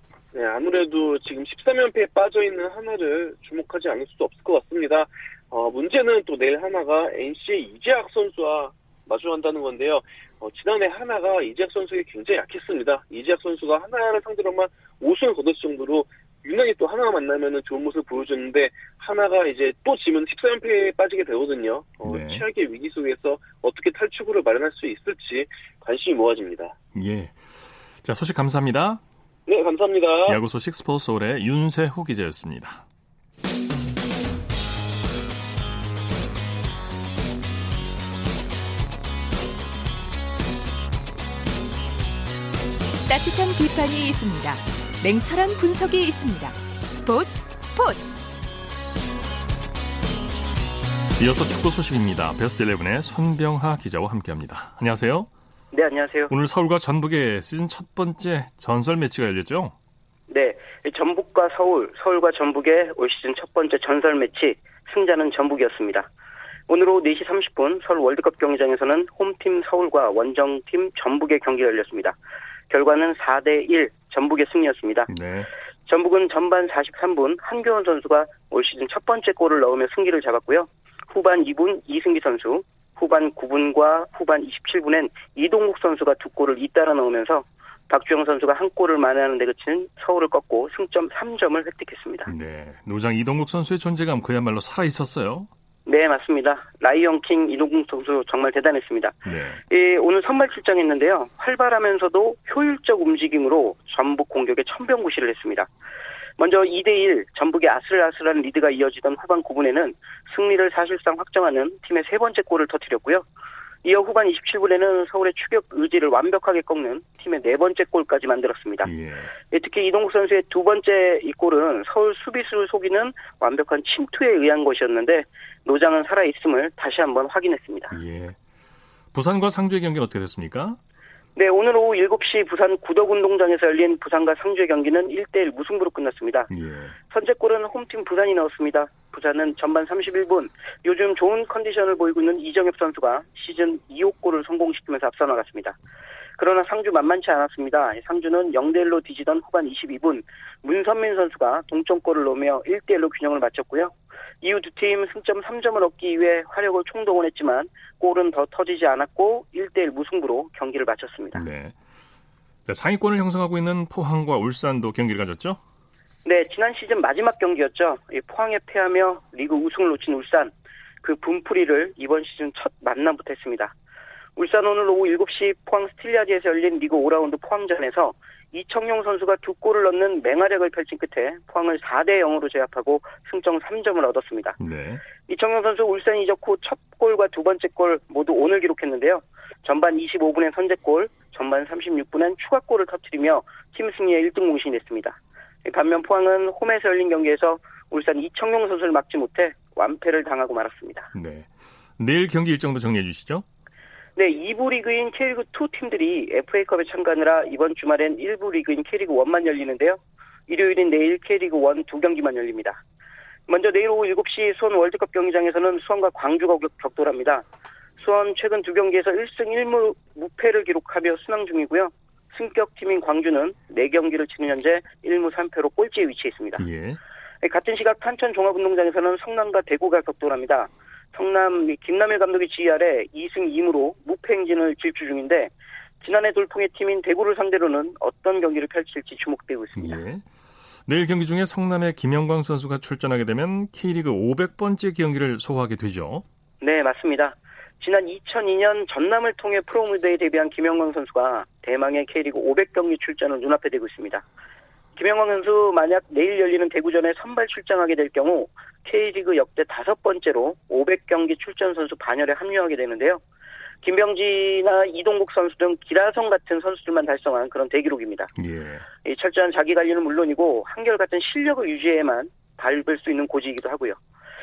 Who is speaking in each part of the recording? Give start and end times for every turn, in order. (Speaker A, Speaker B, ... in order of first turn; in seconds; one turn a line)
Speaker A: 0.3-26.8
Speaker B: 22.0-22.4
Speaker B: 26.9-27.4
Speaker B: 28.0-29.0
Speaker A: 29.5-30.4
Speaker B: 30.3-32.8
Speaker C: 43.1-48.1
Speaker B: 51.2-55.3
Speaker D: 55.7-56.3
Speaker B: 56.3-59.7
Speaker D: 60.3-66.1
Speaker D: 66.7-72.2
Speaker D: 72.7-75.1
Speaker B: 75.1-75.5
Speaker D: 75.9-92.3
Speaker B: 92.3-95.5
Speaker D: 95.9-99.2
Speaker B: 99.3-99.6
Speaker D: 99.7-105.7
Speaker D: 106.4-113.2
Speaker D: 113.8-118.9
Speaker B: 118.8-119.3
Speaker D: 119.5-128.0
Speaker B: 127.9-128.4
Speaker B: 129.1-130.8
Speaker D: 131.4-136.5
Speaker B: 136.5-137.0
Speaker D: 137.1-145.8
Speaker D: 146.4-161.4
Speaker B: 161.3-161.8
Speaker B: 162.7-165.6
Speaker D: 166.2-170.5
Speaker D: 171.0-173.7
Speaker D: 174.4-184.6
Speaker B: 184.6-185.0
Speaker D: 185.3-201.1
Speaker B: 201.1-203.4
Speaker D: 204.2-212.8
Speaker D: 213.5-217.4
Speaker D: 218.0-226.6
Speaker B: 226.6-227.0
Speaker D: 227.4-240.0
Speaker B: 239.8-240.3
Speaker B: 240.9-246.2
Speaker D: 246.6-254.2
Speaker D: 255.0-263.2
Speaker D: 263.8-268.3
Speaker B: 268.4-268.9
Speaker D: 269.1-274.0